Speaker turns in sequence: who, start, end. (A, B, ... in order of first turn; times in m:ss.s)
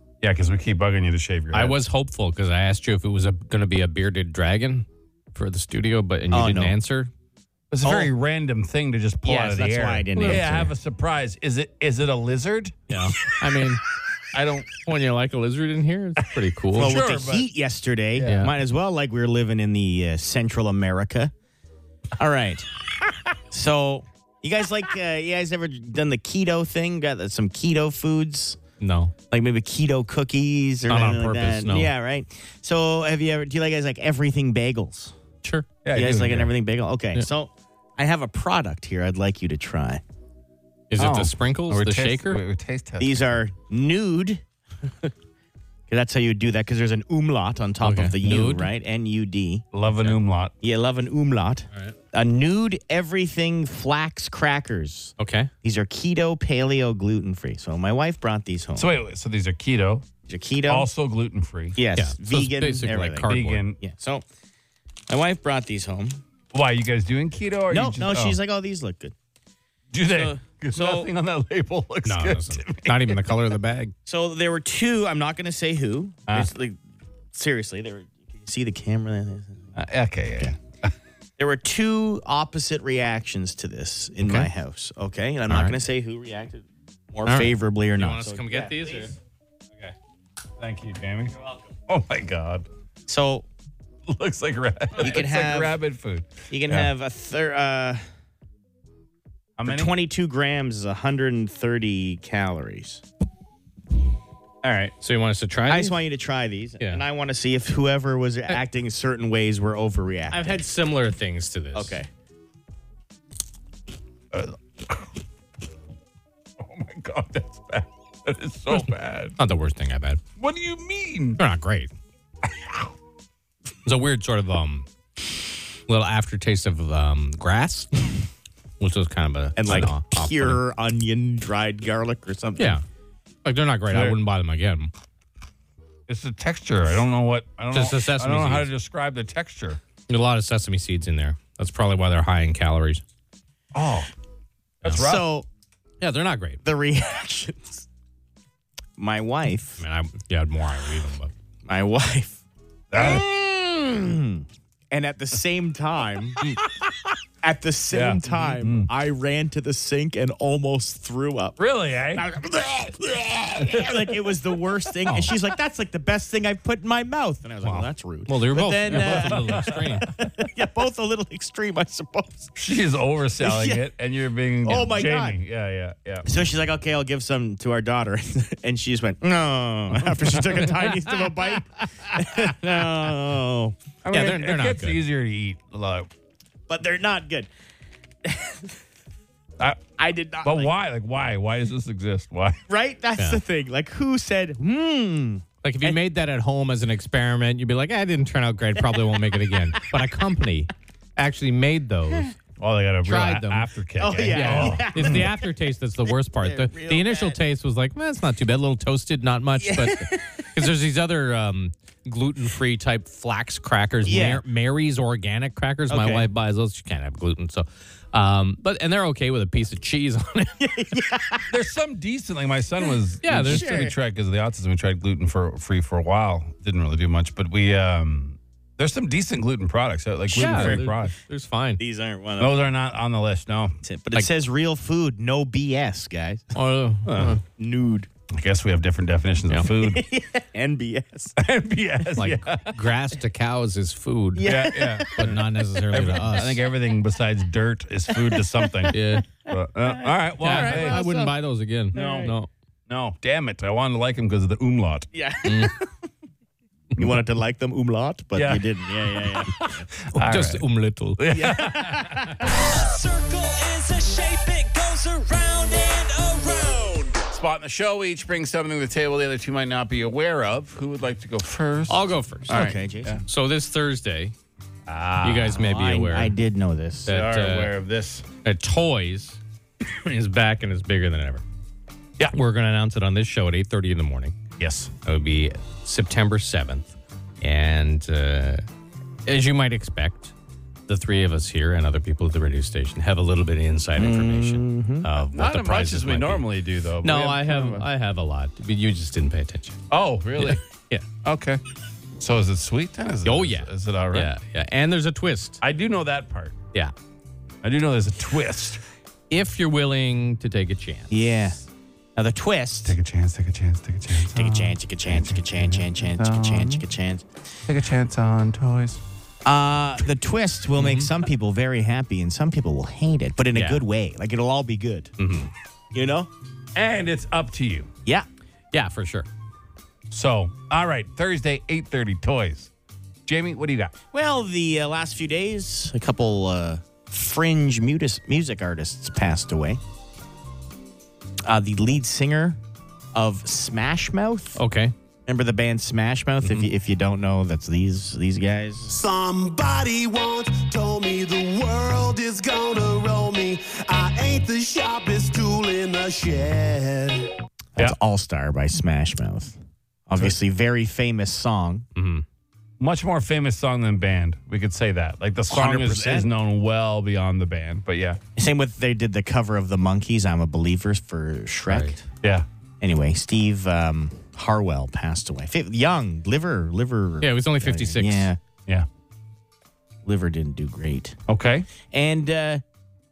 0:00.2-0:01.8 A
0:01.5-0:07.1 B
0:06.3-0:06.8 C
0:07.7-0:12.8 A
0:07.8-0:08.1 C
0:09.2-0:10.7 C
0:12.9-0:13.8 B
0:14.3-0:14.7 A
0:14.7-0:17.0 B
0:16.7-0:21.3 C
0:16.8-0:17.5 A
0:18.2-0:18.4 A
0:18.2-0:18.5 B
0:22.2-0:22.7 C
0:23.5-0:28.6 C
0:28.8-0:29.1 B
0:29.3-0:35.2 C
0:30.9-0:31.9 B
0:35.4-0:35.7 B
0:35.8-0:36.5 A
0:35.9-0:40.0 C
0:40.9-0:42.4 B
0:41.0-0:43.4 A
0:43.0-0:44.4 C
0:45.9-0:49.7 C
0:47.8-0:48.7 B
0:49.7-0:50.5 A
0:50.6-0:58.9 C
0:55.2-0:55.5 B
0:58.8-1:00.1 A
1:00.3-1:00.9 C
1:00.7-1:01.8 A
1:01.8-1:04.3 C
1:02.0-1:03.6 B
1:03.2-1:03.8 A
1:05.1-1:06.2 C
1:06.5-1:08.4 A
1:07.7-1:09.2 C
1:09.9-1:13.2 A
1:10.0-1:11.1 C
1:12.0-1:13.9 B
1:14.1-1:16.8 C
1:17.3-1:19.7 C
1:19.8-1:20.9 A
1:21.4-1:29.1 C
1:24.2-1:24.5 B
1:25.5-1:25.8 B
1:27.3-1:29.2 B
1:30.6-1:31.4 A
1:31.9-1:32.7 A
1:33.1-1:33.5 C
1:34.1-1:36.9 A
1:35.0-1:35.8 C
1:36.5-1:38.0 C
1:39.6-1:39.9 A
1:39.6-1:43.0 C
1:44.6-1:44.9 A
1:45.0-1:46.0 B
1:45.7-1:50.6 C
1:50.3-1:52.0 B
1:51.7-1:52.1 C
1:54.3-1:55.1 A
1:56.6-1:59.4 A
1:59.4-2:00.2 B
2:00.4-2:01.4 A
2:01.4-2:01.9 B
2:02.6-2:02.8 A
2:03.8-2:04.9 B
2:05.9-2:07.9 B
2:08.8-2:10.6 B
2:09.6-2:12.8 C
2:12.6-2:12.8 B
2:13.4-2:14.9 B
2:13.9-2:14.2 A
2:16.1-2:19.8 A
2:17.7-2:18.7 B
2:20.1-2:23.0 B
2:23.7-2:24.1 A
2:24.8-2:25.3 A
2:24.9-2:25.5 C
2:26.0-2:26.6 B
2:26.6-2:27.9 C
2:29.0-2:29.8 C
2:29.8-2:31.3 B
2:31.7-2:32.4 C
2:32.9-2:33.2 A
2:32.9-2:36.6 C
2:36.4-2:37.2 A
2:37.4-2:41.6 C
2:37.9-2:38.9 A
2:41.6-2:42.3 A
2:42.1-2:52.6 C
2:43.6-2:44.3 A
2:47.6-2:50.1 B
2:48.9-2:49.9 A
2:52.6-2:56.3 A
2:53.4-2:53.9 C
2:54.6-2:55.4 C
2:56.2-3:03.8 C
3:00.3-3:00.7 A
3:04.0-3:06.1 A
3:04.1-3:05.0 B
3:06.7-3:07.5 C
3:08.2-3:08.8 C
3:10.0-3:10.7 C
3:10.4-3:12.6 A
3:12.7-3:16.0 C
3:13.2-3:13.4 B
3:15.6-3:22.3 B
3:18.9-3:19.8 C
3:22.6-3:25.3 A
3:23.1-3:23.7 B
3:24.0-3:25.4 C
3:24.2-3:40.6 B
3:26.2-3:27.4 C
3:29.6-3:30.7 C
3:34.0-3:34.4 C
3:35.9-3:36.3 C
3:40.6-3:41.5 C
3:41.5-3:51.1 A
3:43.2-3:43.7 B
3:43.4-3:44.0 C
3:50.3-3:51.8 B
3:50.3-3:50.9 C
3:51.8-3:52.6 C
3:52.4-3:53.8 A
3:53.8-3:56.6 C
3:56.6-3:57.4 B
3:57.2-3:58.1 C
3:58.3-4:00.0 A
3:59.8-4:01.4 C
4:01.4-4:02.8 A
4:02.2-4:04.5 B
4:04.4-4:05.4 C
4:04.4-4:11.0 A
4:05.1-4:06.6 B
4:08.1-4:09.2 C
4:08.9-4:09.3 B
4:09.9-4:11.4 C
4:10.4-4:12.5 B
4:11.9-4:12.3 A
4:11.9-4:12.3 C
4:12.9-4:15.1 A
4:15.1-4:15.9 C
4:15.4-4:15.8 B
4:17.0-4:19.9 C
4:18.4-4:20.6 A
4:20.1-4:21.4 B
4:21.2-4:22.5 A
4:21.3-4:22.8 C
4:22.6-4:27.2 D
4:25.0-4:25.3 C
4:27.3-4:33.2 A
4:31.9-4:32.7 B
4:32.5-4:33.2 C
4:33.2-4:34.4 B
4:34.9-4:35.6 A
4:35.2-4:36.4 B
4:35.5-4:37.2 C
4:37.1-4:37.7 B
4:37.1-4:38.2 A
4:38.4-4:41.4 B
4:42.3-4:44.4 B
4:44.6-4:44.9 A
4:45.0-4:48.6 B
4:49.3-4:50.3 B
4:50.9-4:56.5 B
4:54.0-4:55.1 C
4:55.3-4:57.8 A
4:57.0-4:59.8 B
4:59.9-5:00.6 A
5:00.4-5:01.0 B
5:01.2-5:01.6 A
5:02.2-5:04.3 A
5:03.2-5:05.6 B
5:05.6-5:06.6 A
5:07.6-5:08.8 A
5:09.3-5:11.1 B
5:11.1-5:11.6 C
5:12.2-5:13.0 C
5:12.8-5:16.8 A
5:14.3-5:17.3 C
5:17.7-5:19.0 A
5:19.4-5:25.1 C
5:23.5-5:23.8 B
5:25.2-5:25.5 B
5:25.9-5:26.3 C
5:26.8-5:27.9 A
5:28.7-5:29.3 B
5:30.1-5:32.7 A
5:33.3-5:33.9 A
5:34.1-5:39.8 C
5:41.4-5:42.6 C
5:43.1-5:44.6 C
5:44.6-5:44.9 B
5:45.3-5:49.0 C
5:46.4-5:46.7 B
5:48.9-5:57.3 E
5:57.8-6:01.9 C
6:02.0-6:02.2 B
6:02.8-6:08.2 A
6:05.5-6:06.3 C
6:08.4-6:12.0 C
6:11.7-6:12.0 B
6:12.8-6:18.4 C
6:17.2-6:18.3 B
6:20.0-6:21.2 C
6:21.3-6:21.7 A
6:21.8-6:22.6 C